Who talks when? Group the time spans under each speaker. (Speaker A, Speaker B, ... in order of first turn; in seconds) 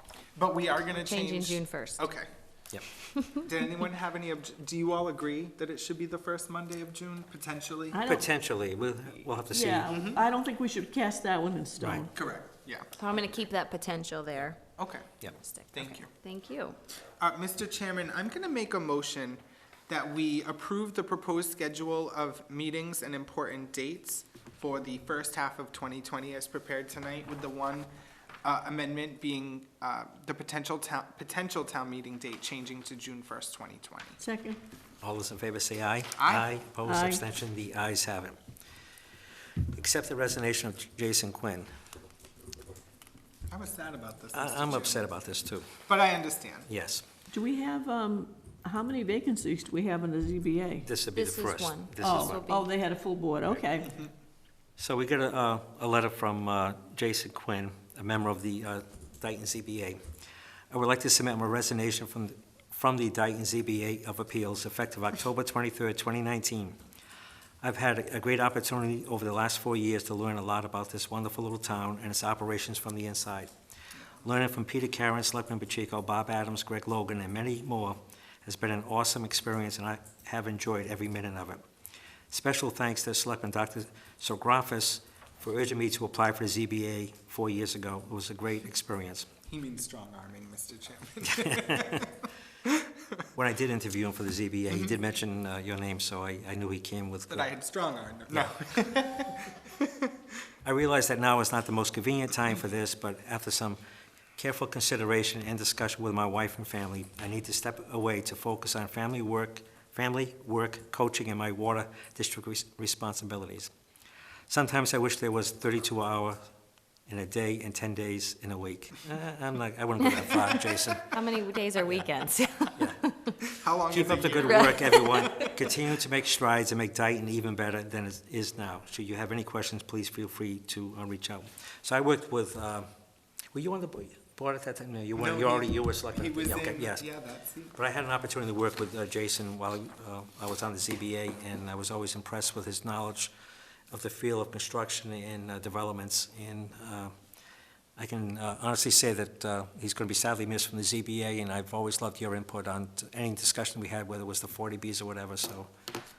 Speaker A: 0.4-2.3, 3.4-8.0, 9.9-10.2, 12.1-13.2, 14.8-15.1, 15.7-16.1, 17.2-27.9, 28.4-34.2, 36.2-36.5, 43.5-45.1, 45.9-46.7, 89.5-92.1, 97.3-99.9, 123.6-125.0, 135.2-137.8
Speaker B: 1.0-2.0, 3.2-3.4, 13.0-14.6, 15.2-16.8, 51.1-52.7, 120.0-120.4, 121.1-123.4, 124.4-125.6
Speaker C: 7.9-8.3, 9.5-12.1, 34.2-34.6, 36.9-37.2, 47.3-50.9, 52.0-54.0
Speaker D: 8.1-10.0, 11.8-12.1, 35.0-38.4, 39.7-41.7, 44.3-45.8, 46.7-47.0, 50.9-52.5, 54.8-60.0, 60.7-66.8, 67.6-73.5, 74.2-81.6, 82.3-89.3, 91.4-92.1, 93.3-97.5, 98.3-98.7, 100.7-103.8, 104.4-113.7, 114.5-116.4, 117.1-121.2, 123.9-132.9, 133.5-137.0, 137.8-143.3, 143.9-147.1, 148.0-155.7